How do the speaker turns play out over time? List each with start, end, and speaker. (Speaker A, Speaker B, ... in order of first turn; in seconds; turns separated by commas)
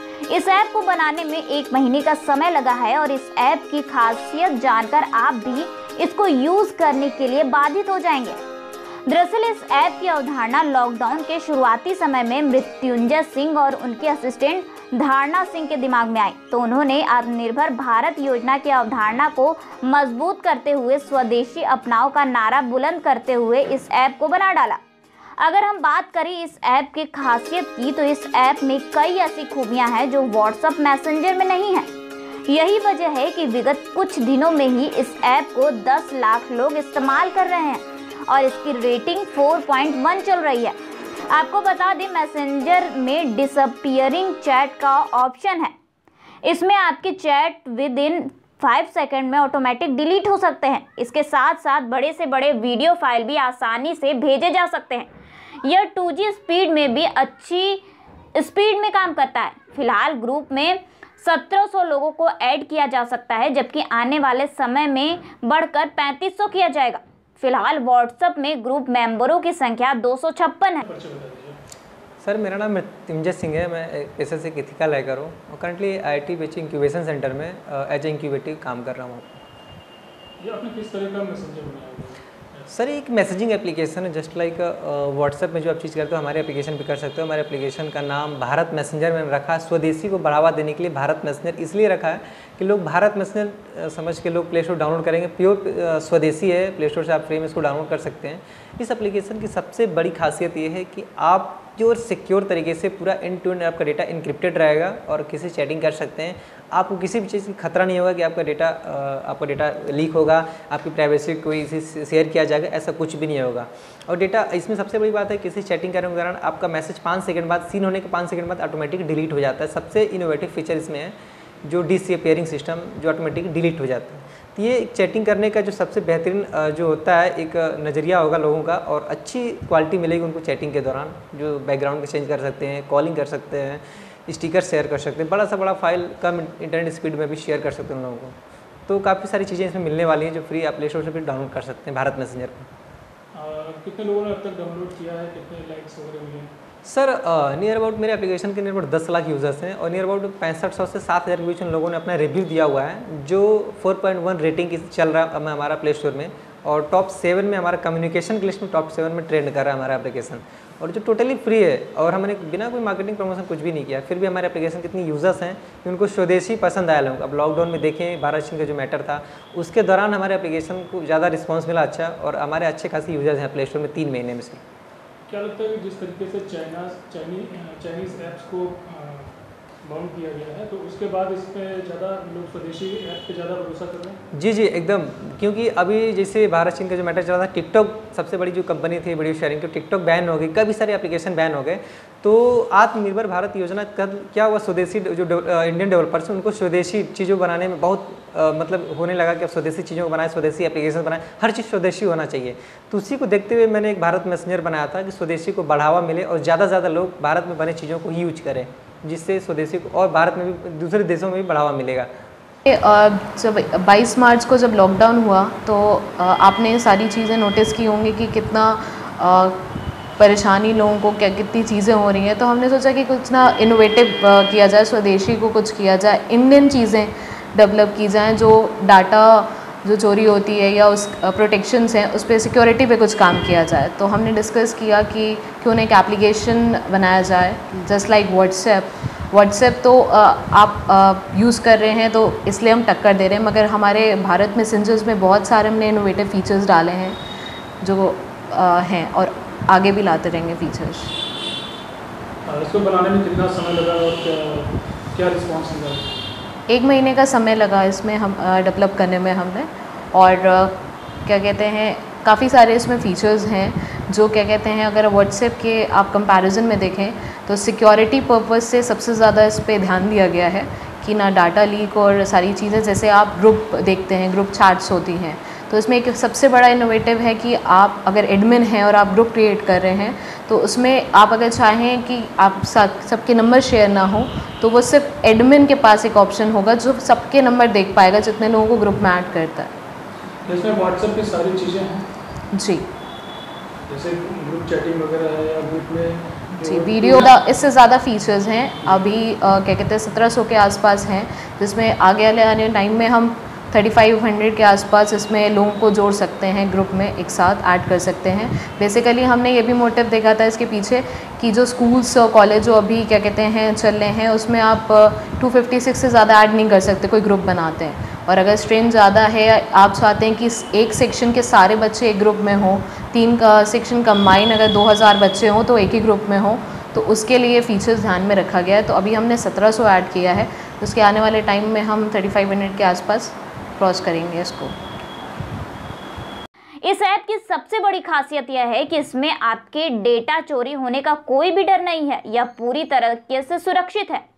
Speaker A: 0.3-8.4, Speaker A: 9.1-24.8, Speaker A: 25.4-31.9, Speaker A: 32.5-40.8, Speaker A: 41.3-45.7, Speaker A: 46.4-55.1, Speaker A: 55.6-57.8, Speaker A: 58.4-70.8, Speaker B: 70.8-71.6, Speaker C: 72.2-79.3, Speaker B: 80.4-82.7, Speaker C: 82.7-138.3, Speaker C: 138.9-142.7, Speaker B: 143.3-146.5, Speaker C: 146.8-174.6, Speaker B: 175.3-179.3, Speaker B: 179.8-184.2, Speaker C: 184.3-212.1, Speaker D: 212.7-219.6, Speaker D: 220.2-247.2, Speaker D: 247.8-251.1, Speaker B: 252.5-256.2, Speaker D: 256.7-289.7, Speaker B: 290.4-292.1, Speaker D: 292.5-292.8, Speaker B: 293.9-297.3, Speaker D: 296.6-334.7, Speaker A: 336.8-344.2